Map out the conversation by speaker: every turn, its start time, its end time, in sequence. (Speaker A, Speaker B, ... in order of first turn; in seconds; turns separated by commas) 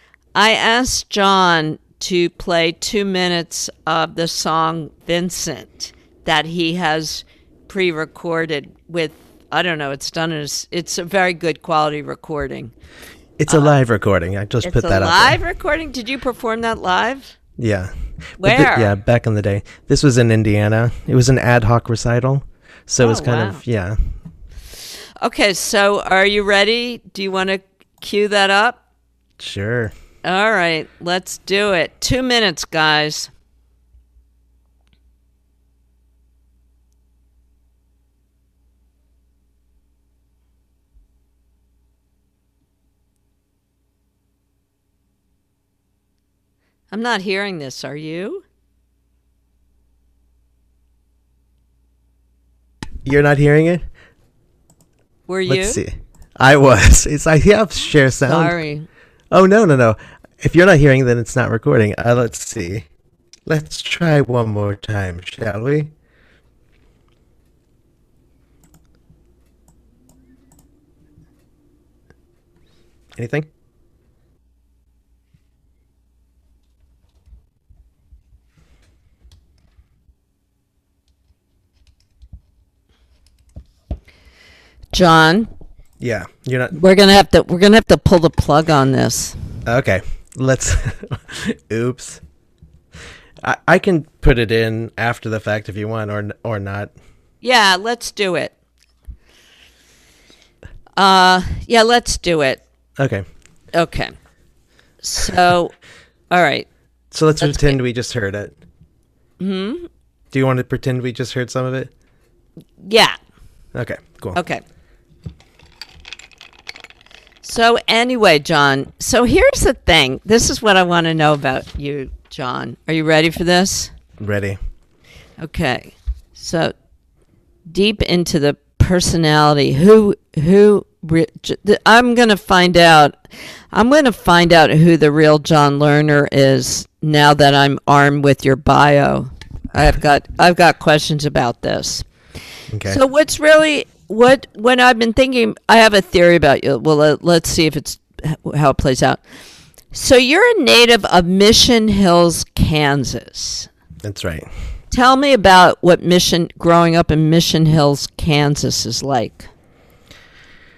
Speaker A: 0.3-12.7, Speaker B: 13.4-15.4, Speaker A: 13.5-13.7, Speaker A: 14.6-17.3, Speaker B: 17.6-24.0, Speaker A: 18.4-18.9, Speaker A: 23.0-23.6, Speaker A: 25.2-28.8, Speaker B: 29.4-29.9, Speaker A: 30.2-33.3, Speaker A: 46.9-48.4, Speaker B: 53.0-53.9, Speaker A: 55.3-55.8, Speaker B: 55.5-58.5, Speaker A: 58.2-58.9, Speaker B: 59.3-62.9, Speaker B: 63.5-65.9, Speaker B: 73.2-73.5, Speaker A: 84.9-85.5, Speaker B: 86.0-86.7, Speaker A: 86.7-89.3, Speaker B: 89.7-92.2, Speaker B: 93.4-96.9, Speaker A: 97.4-98.5, Speaker A: 101.0-102.6, Speaker B: 103.0-103.2, Speaker A: 103.7-104.1, Speaker A: 105.0-105.7, Speaker A: 106.3-106.7, Speaker B: 107.1-108.5, Speaker A: 107.4-107.7, Speaker A: 109.4-109.9, Speaker B: 110.3-111.9, Speaker A: 112.8-113.2, Speaker B: 113.7-114.4, Speaker A: 114.3-114.6, Speaker A: 117.4-123.9, Speaker B: 124.2-124.6, Speaker A: 125.4-126.7, Speaker A: 127.7-133.1, Speaker A: 133.7-142.1, Speaker B: 142.7-143.0, Speaker A: 142.8-149.2, Speaker A: 149.9-153.7, Speaker B: 154.0-154.5, Speaker A: 154.9-159.5